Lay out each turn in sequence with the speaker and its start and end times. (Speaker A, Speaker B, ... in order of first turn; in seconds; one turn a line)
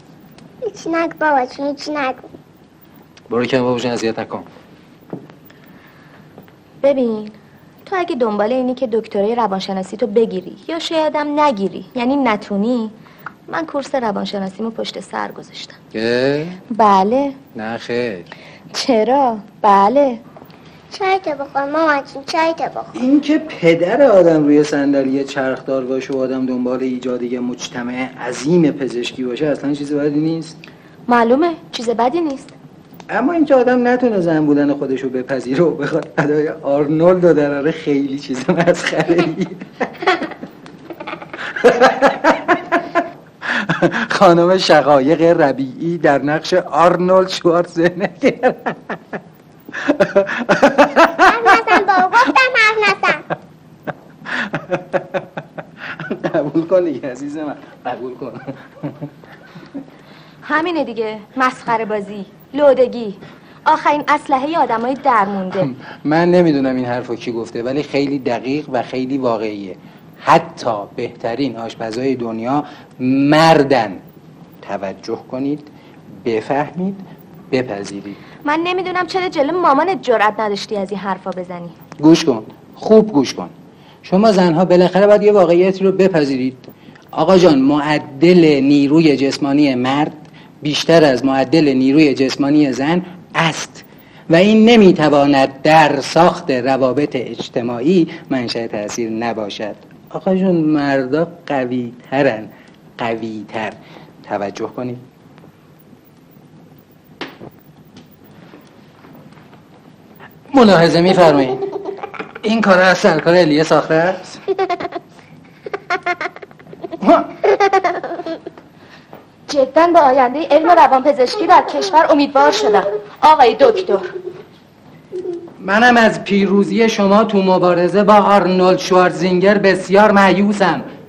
Speaker A: 0.6-2.3
Speaker B: 3.3-4.5
Speaker C: 6.8-12.9
Speaker C: 13.5-15.8
Speaker B: 15.9-16.6
Speaker C: 16.7-17.4
Speaker B: 17.5-18.3
Speaker C: 18.7-20.2
Speaker A: 20.9-23.0
Speaker B: 22.9-30.6
Speaker C: 31.1-32.5
Speaker B: 33.1-39.9
Speaker B: 41.5-42.8
Speaker B: 43.5-49.0
Speaker B: 49.8-51.8
Speaker A: 51.3-53.2
Speaker B: 54.3-55.2
Speaker B: 56.0-59.0
Speaker C: 60.4-65.7
Speaker B: 65.6-74.0
Speaker B: 74.6-75.7
Speaker B: 76.2-78.2
Speaker C: 78.4-81.8
Speaker B: 82.0-83.5
Speaker B: 84.0-105.0
Speaker B: 110.5-111.6
Speaker B: 112.4-114.4
Speaker B: 117.0-117.3
Speaker C: 119.5-124.1
Speaker B: 125.6-130.8